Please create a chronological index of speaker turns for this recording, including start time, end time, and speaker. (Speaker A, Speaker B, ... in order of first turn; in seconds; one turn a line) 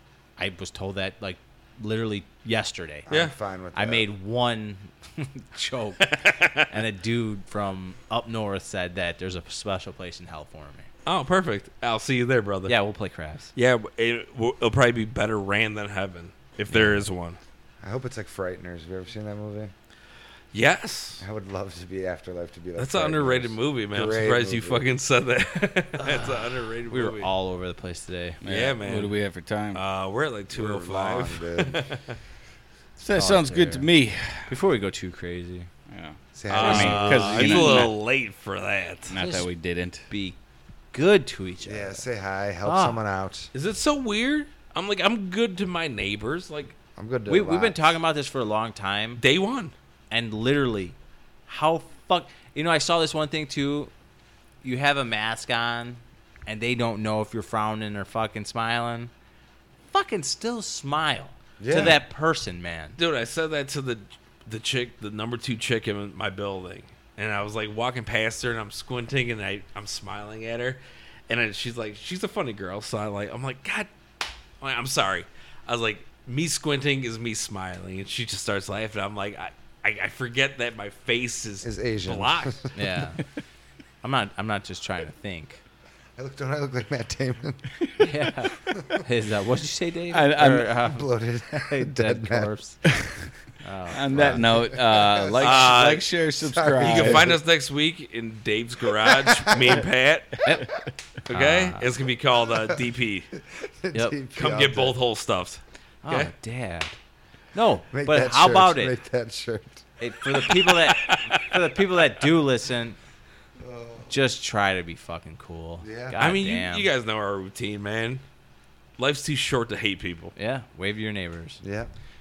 Speaker A: 0.4-3.1
Speaker B: 3.1-4.1
Speaker A: 3.8-6.2
Speaker C: 6.0-6.7
Speaker A: 6.7-10.9
Speaker C: 11.1-12.8
Speaker A: 12.7-13.5
Speaker C: 13.6-17.4
Speaker A: 16.7-17.1
Speaker B: 17.8-19.7
Speaker C: 20.5-21.2
Speaker B: 21.2-24.9
Speaker C: 22.8-27.3
Speaker A: 26.0-28.4
Speaker D: 28.4-29.8
Speaker C: 28.5-29.1
Speaker C: 29.8-32.2
Speaker B: 30.5-31.9
Speaker D: 33.0-34.5
Speaker A: 33.1-33.9
Speaker A: 34.5-35.7
Speaker D: 35.9-37.9
Speaker B: 36.3-37.3
Speaker C: 36.5-39.2
Speaker A: 36.6-37.9
Speaker D: 39.1-40.1
Speaker A: 39.2-39.5
Speaker A: 40.1-40.4
Speaker A: 40.9-42.1
Speaker B: 41.6-43.5
Speaker A: 42.6-43.0
Speaker C: 43.5-46.8
Speaker B: 47.0-47.9
Speaker A: 47.3-49.2
Speaker C: 49.2-49.7
Speaker A: 50.1-51.0
Speaker A: 51.5-53.9
Speaker A: 54.6-59.1
Speaker A: 59.9-63.0
Speaker B: 61.6-62.0
Speaker C: 63.0-73.9
Speaker C: 74.6-82.7
Speaker B: 81.6-82.7
Speaker A: 82.7-83.2
Speaker A: 84.0-85.6
Speaker B: 86.2-87.7
Speaker A: 88.0-93.0
Speaker B: 88.7-89.0
Speaker D: 90.1-90.7
Speaker B: 90.4-93.1
Speaker A: 93.6-94.7
Speaker D: 93.9-97.4
Speaker B: 94.1-97.4
Speaker C: 95.4-96.1
Speaker C: 96.8-100.5
Speaker B: 98.9-99.8
Speaker A: 100.4-101.9
Speaker C: 101.3-103.3
Speaker B: 103.4-105.0
Speaker C: 104.3-106.3
Speaker A: 106.0-107.0
Speaker A: 107.5-108.9
Speaker B: 107.9-109.9
Speaker A: 110.0-113.0
Speaker C: 110.3-112.1
Speaker B: 113.6-114.1
Speaker A: 114.1-116.9
Speaker B: 115.8-116.2
Speaker C: 116.2-118.2
Speaker C: 119.0-120.3
Speaker A: 120.4-121.6
Speaker B: 121.6-121.9